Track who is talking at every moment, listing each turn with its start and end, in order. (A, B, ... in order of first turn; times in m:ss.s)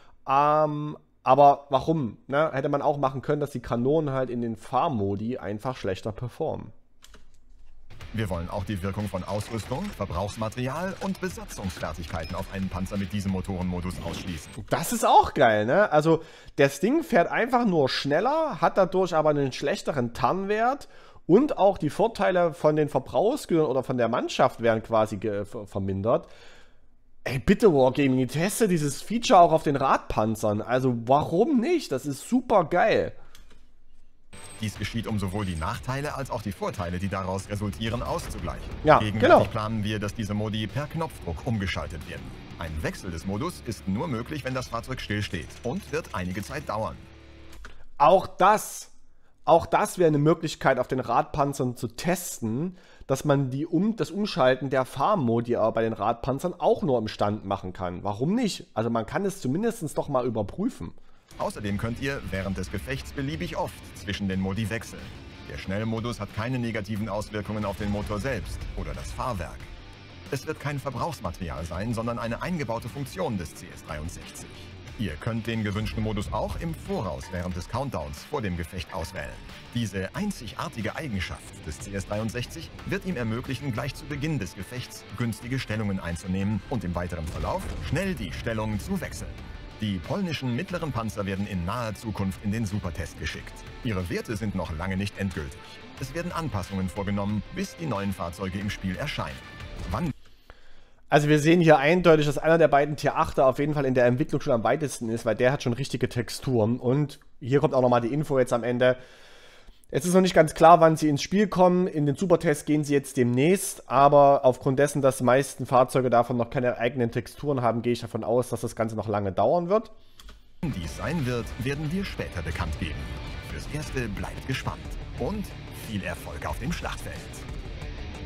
0:00.2-0:06.7 A
0:08.1-0:14.6 B
0:14.6-0:26.3 A
0:27.2-0:33.2 A
0:34.6-0:47.1 B
0:38.8-0:39.5 A
0:48.0-0:48.9 A
0:49.4-1:01.0 A
1:01.4-1:09.7 B
1:10.3-1:40.1 B
1:41.1-1:49.0 A
1:49.9-1:59.9 A
2:00.6-2:07.5 B